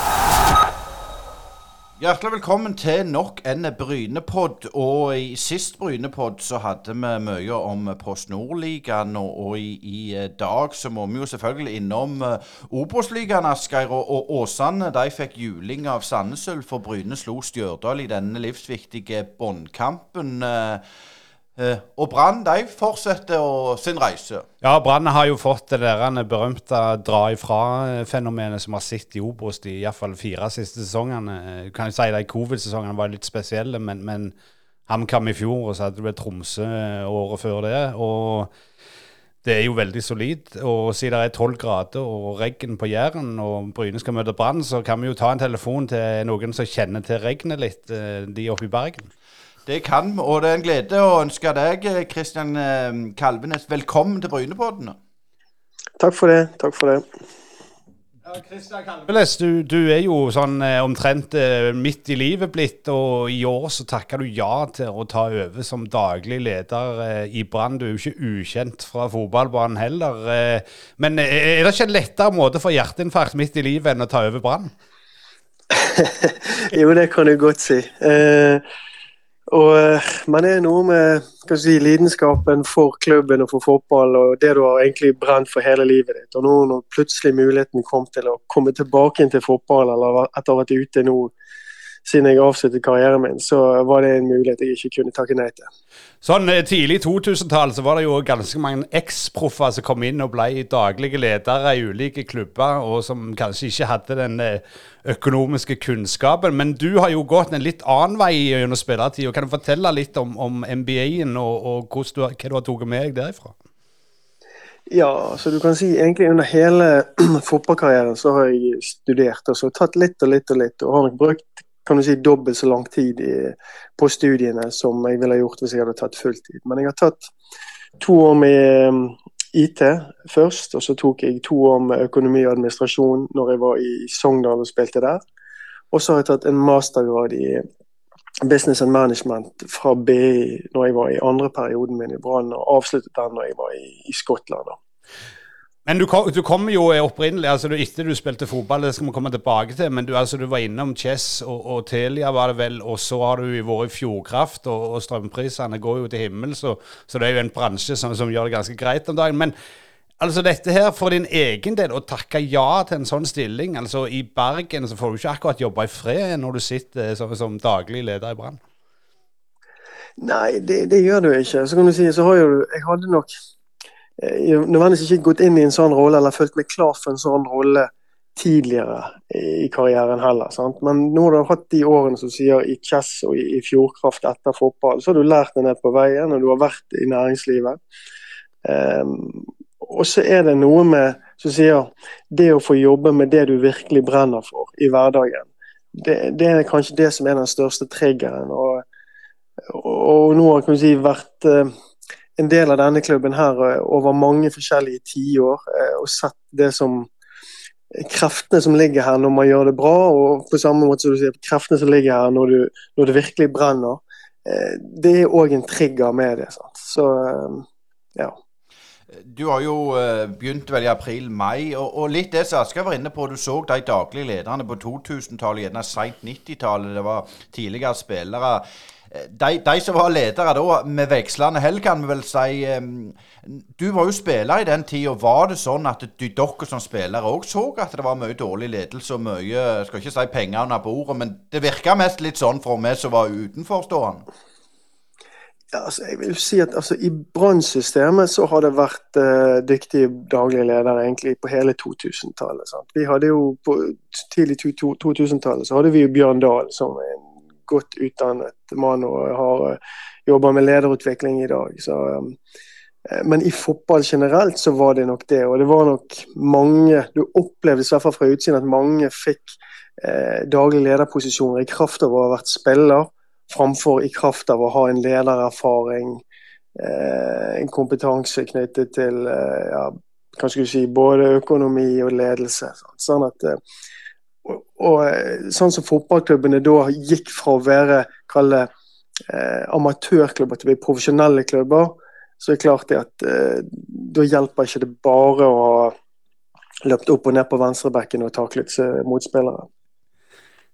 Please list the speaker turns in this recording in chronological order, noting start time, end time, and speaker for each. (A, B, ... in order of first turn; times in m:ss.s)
0:02.0-0:20.8 A
0:21.6-0:24.5 A
0:24.6-0:34.3 B
0:34.9-0:38.5 B
0:39.4-0:49.1 B
0:49.7-0:55.0 A
0:56.0-0:57.0 C
0:58.2-1:14.7 B
1:15.7-1:18.6 C
1:19.5-1:31.3 C
1:32.1-1:35.7 C
1:36.2-1:53.6 B
1:54.9-2:07.3 C
2:08.0-2:15.2 C
2:15.9-2:17.6 C
2:18.4-2:24.8 C
2:25.9-2:39.5 B
2:40.2-2:48.6 B
2:50.2-2:53.3 C
2:54.2-3:07.8 C
3:08.6-3:18.8 C
3:19.6-3:21.7 C
3:22.4-3:27.1 C
3:27.9-3:38.4 C
3:39.1-4:04.2 A
4:05.7-4:22.4 C
4:23.1-4:36.2 C
4:36.8-4:43.6 C
4:44.4-4:48.7 C
4:49.3-4:56.0 C
4:56.8-4:59.7 C